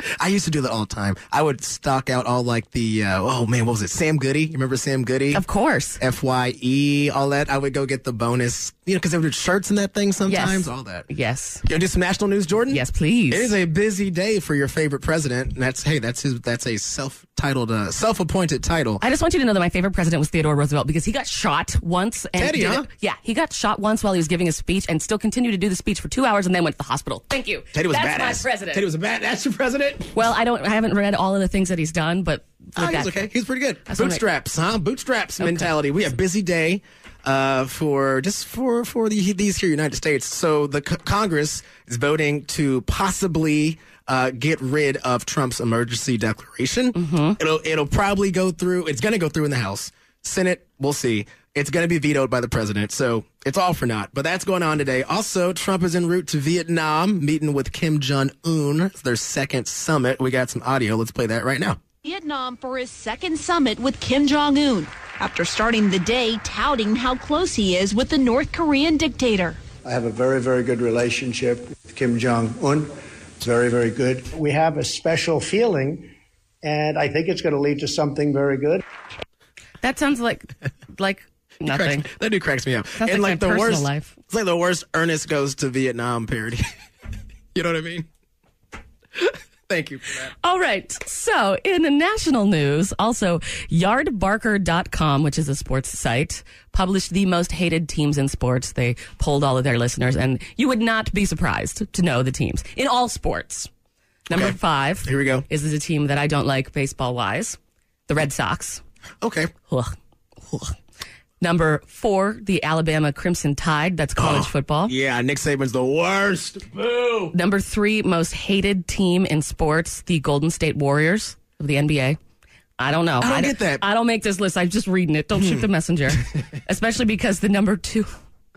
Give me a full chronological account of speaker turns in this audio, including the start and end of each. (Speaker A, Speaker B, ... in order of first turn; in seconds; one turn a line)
Speaker A: 0.2-5.4
Speaker B: 5.3-6.0
Speaker A: 6.0-11.1
Speaker B: 10.3-11.6
Speaker A: 11.7-19.0
Speaker B: 12.7-13.5
Speaker B: 19.0-28.8
Speaker A: 22.4-22.9
Speaker A: 27.7-30.1
Speaker B: 30.1-33.1
Speaker A: 32.8-61.8
Speaker B: 33.9-34.2
Speaker B: 35.4-35.7
Speaker B: 46.9-47.4
Speaker C: 62.0-69.6
Speaker D: 69.8-76.1
Speaker D: 76.6-78.8
Speaker B: 79.8-82.0
Speaker A: 81.7-86.6
Speaker B: 83.0-84.2
Speaker A: 87.5-88.1
Speaker A: 89.2-90.3
Speaker B: 90.4-103.7
Speaker B: 104.3-108.8
Speaker A: 104.3-105.4
Speaker A: 109.2-109.5
Speaker B: 109.7-109.9
Speaker B: 110.5-110.7
Speaker B: 111.4-114.9
Speaker A: 114.2-117.3
Speaker B: 117.3-122.2
Speaker B: 122.8-128.1
Speaker A: 123.2-123.8
Speaker A: 125.4-125.6